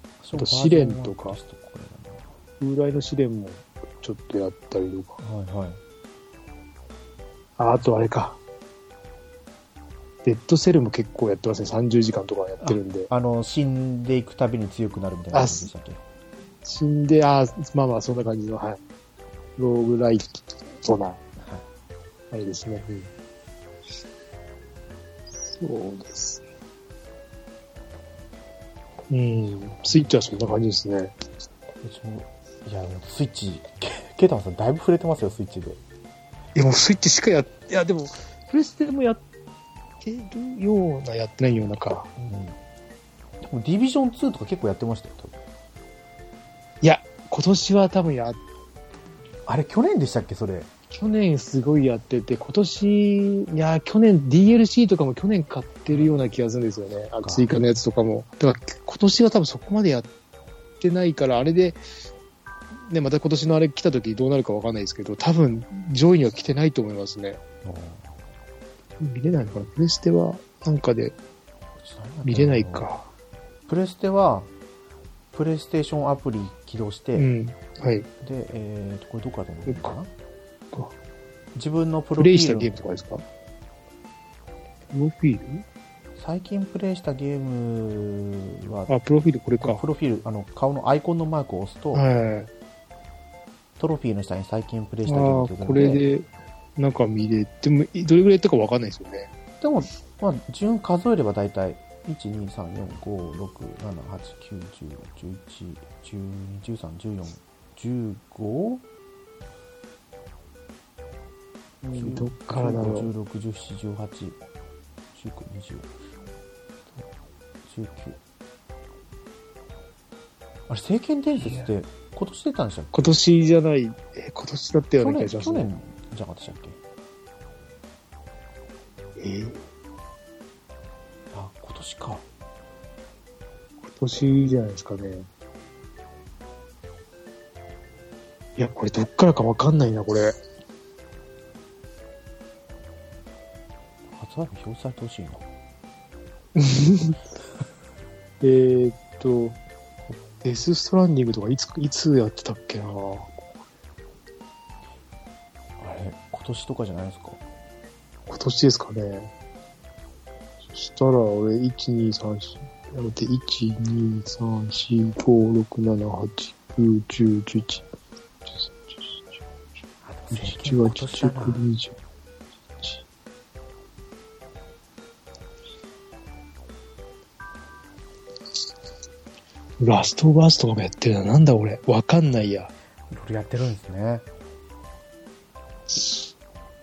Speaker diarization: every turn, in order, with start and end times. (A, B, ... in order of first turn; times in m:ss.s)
0:00.2-0:02.3 A
0:00.3-0:01.4 B
0:02.6-0:05.2 B
0:05.2-0:05.8 A
0:07.6-0:08.4 B
0:10.2-0:13.1 B
0:12.6-0:16.0 A
0:15.3-0:15.7 B
0:16.6-0:18.8 B
0:19.6-0:20.3 B
0:20.8-0:21.2 B
0:22.3-0:23.1 B
0:25.4-0:26.4 B
0:29.1-0:31.1 B
0:31.8-0:35.8 A
0:36.5-0:39.2 B
0:40.0-0:42.1 B
0:42.2-0:42.6 A
0:43.4-0:45.4 A
0:46.8-0:48.4 B
0:49.4-0:50.7 A
0:50.9-1:00.1 B
0:55.9-0:56.1 A
0:57.2-0:57.6 A
1:00.8-1:01.8 B
1:02.9-1:07.4 B
1:07.6-1:08.1 A
1:09.0-1:11.2 B
1:11.8-1:12.9 A
1:12.2-1:13.1 B
1:13.7-1:14.5 A
1:15.3-1:17.3 A
1:17.1-1:18.1 B
1:18.2-1:20.1 A
1:19.7-1:19.9 B
1:21.5-1:22.7 A
1:22.2-1:23.2 B
1:24.9-1:25.6 B
1:26.2-1:28.9 A
1:28.9-1:29.8 B
1:29.6-1:32.1 A
1:31.9-1:32.5 B
1:33.8-1:36.0 A
1:35.1-1:39.3 B
1:39.6-1:48.8 A
1:51.8-1:53.1 B
1:51.9-1:54.4 A
1:55.1-1:55.9 A
1:57.6-1:58.2 A
2:00.7-2:02.9 A
2:01.4-2:01.7 B
2:02.9-2:05.7 B
2:05.0-2:06.8 A
2:09.2-2:09.6 B
2:11.3-2:12.2 A
2:13.8-2:15.3 B
2:18.6-2:20.4 B
2:24.1-2:25.4 A
2:26.6-2:27.2 B
2:28.4-2:29.6 B
2:30.2-2:33.5 B
2:35.8-2:37.4 A
2:38.3-2:39.3 B
2:40.7-2:47.8 B
2:48.4-2:49.4 B
2:50.0-2:51.6 A
2:50.3-2:52.0 B
2:59.8-3:02.7 B
3:03.1-3:04.2 A
3:05.9-3:06.3 B